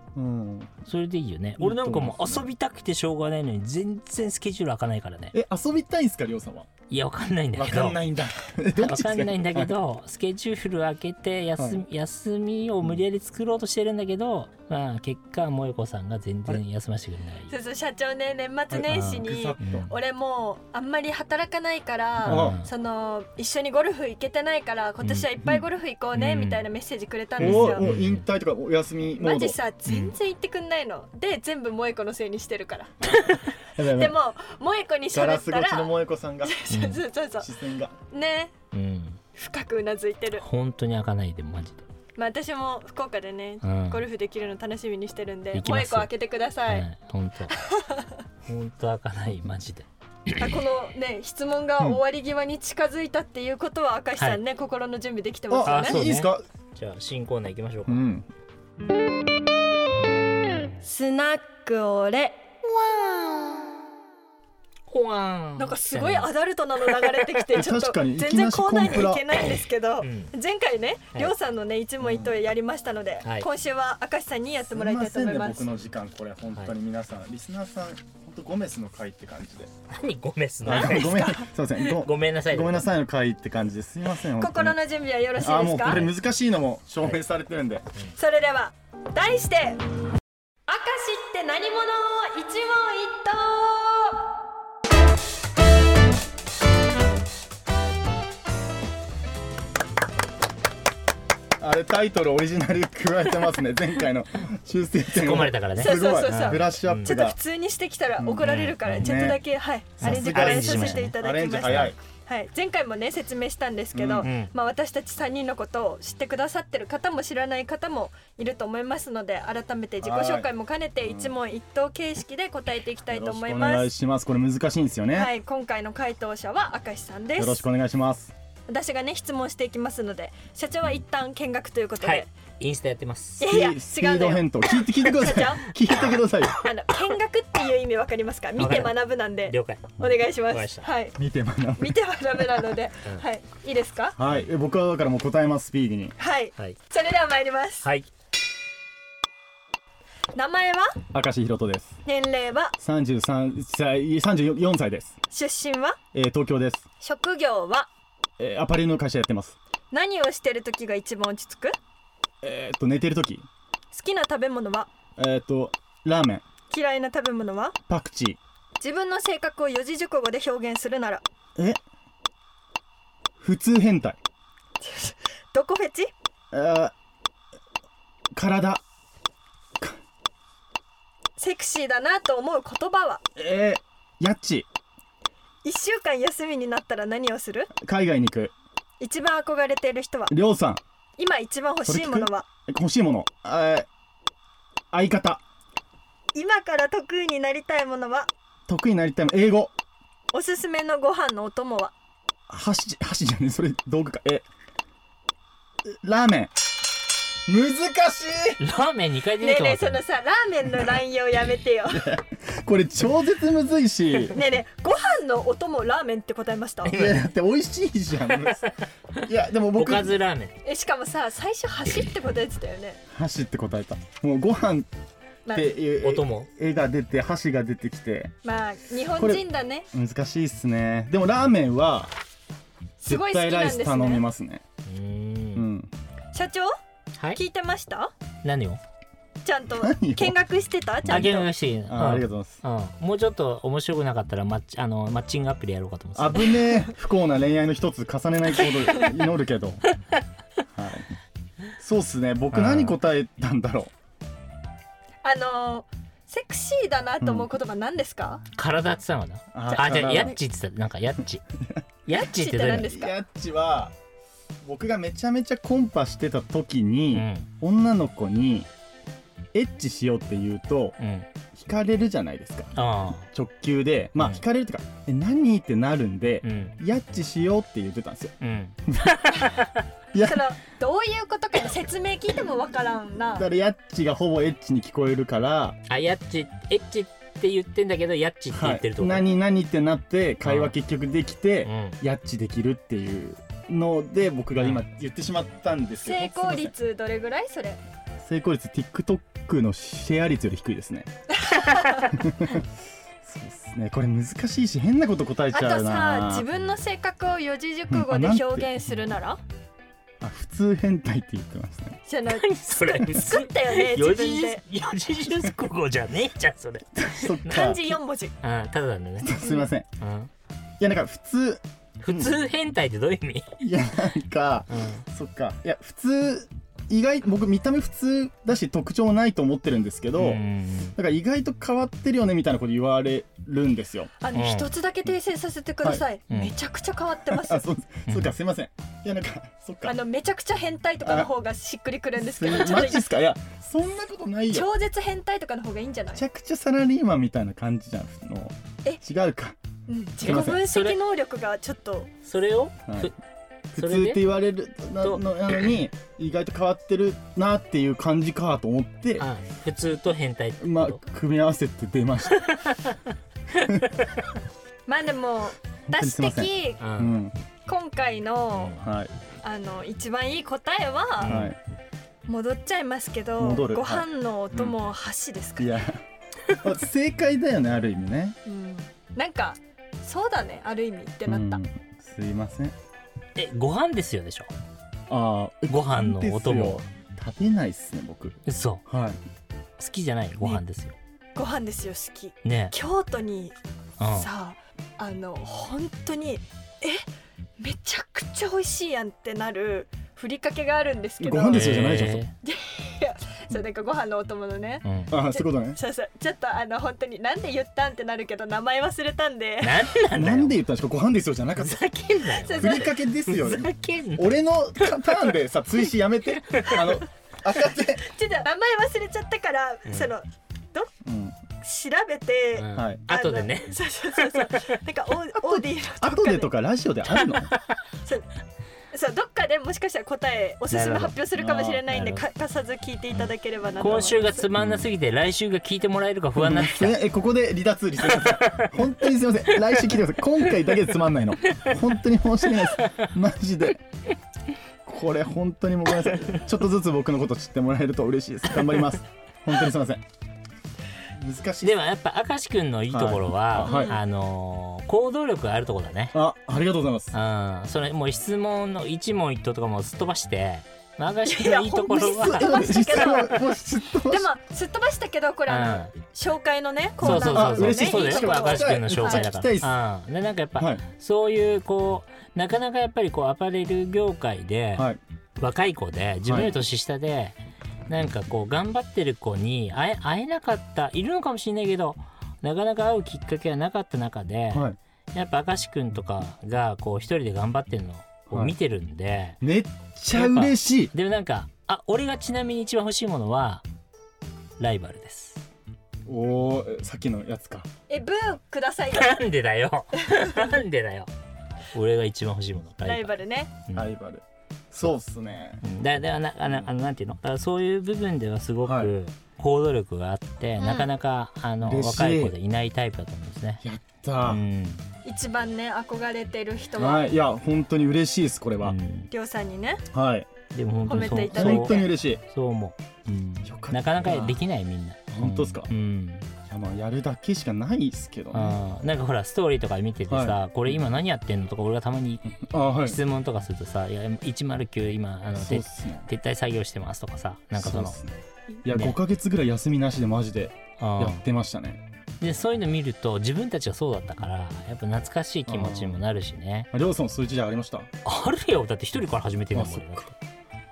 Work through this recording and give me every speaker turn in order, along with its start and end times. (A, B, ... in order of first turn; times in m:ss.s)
0:00.2-0:00.7 A
0:00.9-0:05.3 B
0:01.6-0:02.5 A
0:05.3-0:06.7 A
0:06.9-0:08.0 B
0:07.6-0:09.7 A
0:08.8-0:17.5 B
0:11.6-0:11.8 A
0:17.5-0:27.9 C
0:18.7-0:19.9 A
0:18.9-0:20.0 B
0:22.2-0:22.7 B
0:22.3-0:22.6 A
0:25.0-0:25.3 B
0:26.1-0:26.6 B
0:27.4-0:28.2 B
0:27.4-0:29.6 A
0:29.2-0:33.1 C
0:29.8-0:30.2 B
0:33.8-0:34.2 A
0:33.8-0:37.5 C
0:35.1-0:36.6 A
0:36.7-0:37.0 B
0:37.4-0:38.0 A
0:38.1-0:38.5 C
0:38.7-0:39.2 B
0:39.4-0:40.4 C
0:40.4-0:41.8 B
0:42.2-0:46.9 C
0:43.6-0:44.0 B
0:45.5-0:46.1 B
0:46.6-0:47.5 B
0:47.5-0:48.2 C
0:48.5-0:50.4 B
0:50.4-0:56.0 C
0:55.5-0:56.4 A
0:55.6-0:58.1 B
0:57.9-0:58.3 A
1:00.8-1:03.7 C
1:04.9-1:06.3 B
1:05.6-1:15.7 C
1:07.5-1:09.3 A
1:10.0-1:10.3 B
1:14.7-1:19.7 A
1:19.9-1:21.1 B
1:20.6-1:24.8 A
1:20.7-1:21.5 C
1:21.7-1:22.9 B
1:24.2-1:26.1 C
1:25.4-1:27.9 A
1:28.2-1:29.8 C
1:30.7-1:34.2 C
1:41.6-1:47.4 A
1:45.1-1:47.1 B
1:45.8-2:03.9 C
1:48.2-1:49.4 A
1:48.4-1:49.3 B
1:50.0-1:52.0 A
1:50.0-1:51.9 B
1:54.0-1:54.3 A
1:54.2-1:54.5 B
2:00.0-2:00.5 A
2:01.0-2:01.3 A
2:03.1-2:05.3 A
2:05.1-2:07.7 C
2:07.4-2:08.3 A
2:08.7-2:12.3 C
2:12.0-2:13.5 B
2:13.4-2:15.7 C
2:13.4-2:16.6 A
2:16.5-2:21.2 C
2:18.6-2:20.0 B
2:20.5-2:20.9 B
2:21.2-2:22.0 A
2:21.8-2:24.2 C
2:24.2-2:26.2 A
2:26.2-2:27.9 C
2:27.8-2:28.1 B
2:30.4-2:31.0 C
2:31.1-2:32.0 A
2:32.0-2:32.8 C
2:32.8-2:35.2 A
2:35.3-2:36.0 C
2:36.1-2:36.9 A
2:37.0-2:37.9 C
2:38.4-2:39.6 A
2:39.9-2:41.8 C
2:42.4-2:43.5 A
2:43.9-2:44.9 C
2:45.2-2:46.4 A
2:46.7-2:47.8 C
2:47.9-2:48.4 A
2:48.8-2:51.2 C
2:53.4-2:54.2 A
2:54.8-2:56.1 C
2:56.5-2:56.9 A
2:58.4-2:58.8 A
3:01.4-3:03.2 C
3:03.4-3:04.7 A
3:05.6-3:07.7 C
3:07.8-3:08.5 A
3:09.0-3:10.3 C
3:10.3-3:10.8 A
3:11.2-3:12.5 C
3:11.8-3:13.9 A
3:14.9-3:15.4 A
3:16.3-3:18.3 C
3:18.7-3:19.7 A
3:20.3-3:21.9 C
3:22.5-3:24.5 A
3:26.0-3:26.5 A
3:27.5-3:28.6 A
3:28.6-3:30.0 B
3:29.4-3:32.1 C
3:31.9-3:34.4 A
3:34.3-3:37.0 C
3:36.8-3:40.2 A
3:36.8-3:37.2 B
3:39.7-3:40.6 B
3:40.6-3:43.0 C
3:43.1-3:44.9 A
3:45.4-3:45.8 C
3:45.5-3:48.3 A
3:46.0-3:46.5 B
3:48.4-3:49.9 C
3:49.1-3:52.1 A
3:53.0-3:54.3 C
3:53.0-3:54.6 A
3:54.9-3:55.7 B
3:55.6-3:55.9 A
3:56.3-3:56.7 C
3:57.3-3:58.1 C
3:58.4-3:58.8 B
3:59.4-4:01.5 C
3:59.8-4:00.4 A
4:01.0-4:01.3 A
4:01.1-4:06.6 B
4:01.9-4:02.6 A
4:06.2-4:09.8 A
4:08.9-4:09.2 C
4:10.7-4:11.1 A
4:11.8-4:13.9 A
4:12.5-4:13.0 B
4:15.2-4:18.4 C
4:17.2-4:17.5 A
4:18.6-4:21.4 B
4:19.5-4:20.4 A
4:19.7-4:20.4 C
4:22.1-4:23.0 B
4:22.1-4:23.1 C
4:22.8-4:23.9 A
4:24.6-4:28.7 A
4:27.1-4:27.5 B
4:29.5-4:31.0 A
4:31.0-4:31.3 B
4:31.6-4:32.7 A
4:32.8-4:33.3 B
4:33.2-4:38.3 A
4:36.4-4:36.8 B
4:38.4-4:39.8 B
4:40.1-4:40.4 A
4:40.2-4:43.5 C
4:43.4-4:45.8 A
4:45.9-4:49.3 B
4:48.5-4:56.7 A
4:50.4-4:50.7 B
4:51.6-4:52.0 B
4:54.6-4:54.8 B
4:56.0-4:57.8 C
4:58.2-5:01.1 A
5:01.4-5:02.1 C
5:02.1-5:02.6 A
5:03.2-5:06.5 A
5:05.5-5:09.4 C
5:07.9-5:08.8 A
5:10.2-5:12.0 A
5:12.0-5:14.6 C
5:12.3-5:17.8 B
5:17.0-5:17.9 A
5:17.5-5:18.3 C
5:18.4-5:19.3 B
5:19.2-5:19.9 A
5:19.4-5:19.7 C
5:20.0-5:20.3 B
5:20.8-5:22.4 A
5:22.0-5:23.5 B
5:23.6-5:30.4 A
5:24.7-5:25.0 B
5:30.2-5:31.0 B
5:31.0-5:34.1 A
5:34.2-5:37.6 C
5:34.3-5:34.7 B
5:37.3-5:40.0 A
5:38.1-5:38.3 B
5:39.8-5:43.1 C
5:41.0-5:41.3 A
5:42.2-5:44.7 A
5:44.5-5:46.2 C
5:46.1-5:49.6 A
5:49.9-5:52.1 C
5:50.2-5:50.6 A
5:50.2-5:51.0 B
5:52.2-5:53.1 B
5:53.7-5:59.3 A
5:53.8-5:54.2 B
5:55.0-5:55.7 B
5:59.2-6:01.0 B
6:00.6-6:02.4 A
6:02.4-6:03.0 B
6:04.9-6:06.8 C
6:05.9-6:07.4 A
6:06.8-6:07.2 B
6:07.7-6:08.8 C
6:08.5-6:08.8 B
6:08.8-6:09.1 A
6:09.4-6:11.4 C
6:11.2-6:11.6 B
6:11.2-6:11.6 A
6:12.3-6:15.8 C
6:13.4-6:14.8 A
6:15.6-6:16.0 A
6:16.6-6:18.4 A
6:18.5-6:21.6 C
6:21.2-6:22.7 A
6:23.4-6:24.5 B
6:25.1-6:29.2 A
6:25.7-6:26.8 B
6:28.5-6:28.8 B
6:29.8-6:31.0 B
6:31.4-6:33.6 C
6:32.4-6:32.8 B
6:34.0-6:34.3 B
6:34.1-6:37.0 C
6:37.6-6:41.9 C
6:41.2-6:42.2 A
6:41.5-6:42.3 B
6:42.4-6:49.9 C
6:44.8-6:45.1 B
6:45.1-6:45.8 A
6:49.6-6:50.6 B
6:50.1-6:51.8 A
6:51.6-6:55.3 B
6:52.3-6:52.9 C
6:52.5-6:58.1 A
6:56.5-6:57.0 B
6:58.0-7:00.9 C
7:01.0-7:01.4 A
7:01.6-7:06.5 C
7:02.6-7:04.8 B
7:02.7-7:03.0 A
7:05.6-7:07.5 A
7:07.1-7:07.6 B
7:08.9-7:14.5 C
7:10.7-7:11.3 B
7:11.4-7:11.8 A
7:11.9-7:12.3 B
7:13.1-7:17.0 B
7:14.5-7:14.9 A
7:16.4-7:23.8 A
7:18.1-7:18.7 B
7:22.5-7:23.1 B
7:24.9-7:30.0 A
7:31.1-7:31.8 A
7:31.6-7:36.2 B
7:32.9-7:34.0 A
7:33.6-7:34.0 C
7:36.1-7:37.2 A
7:37.1-7:43.2 B
7:41.3-7:49.3 C
7:42.0-7:44.3 A
7:45.5-7:46.0 B
7:47.0-7:49.7 A
7:47.0-7:57.4 B
7:50.6-7:50.8 A
7:56.3-7:56.6 A
7:57.9-8:09.4 B
8:04.5-8:04.8 A
8:08.3-8:08.6 A
8:09.4-8:10.9 A
8:10.1-8:13.6 B
8:14.6-8:15.4 B
8:16.1-8:17.7 A
8:17.9-8:19.2 C
8:18.9-8:21.1 B
8:21.7-8:23.1 B
8:22.8-8:23.5 C
8:23.8-8:25.6 A
8:25.6-8:33.6 B
8:28.6-8:28.9 A
8:30.6-8:30.9 C
8:31.6-8:32.4 A
8:33.6-8:34.4 A
8:34.2-8:34.8 B
8:35.0-8:37.1 C
8:36.8-8:38.8 A
8:38.6-8:39.1 B
8:39.1-8:39.8 C
8:39.9-8:40.3 A
8:40.5-8:46.3 B
8:40.9-8:41.9 C
8:40.9-8:42.2 A
8:43.4-8:44.4 A
8:45.1-8:45.7 A
8:46.5-8:48.6 A
8:48.3-8:58.0 B
8:50.1-8:51.0 A
8:52.4-8:53.0 A
8:55.3-8:56.1 A
8:57.6-9:01.8 A
8:58.6-8:59.0 B
9:00.8-9:01.2 B
9:02.2-9:06.7 B
9:05.5-9:06.0 A
9:06.7-9:07.9 A
9:08.0-9:10.2 B
9:09.5-9:10.1 A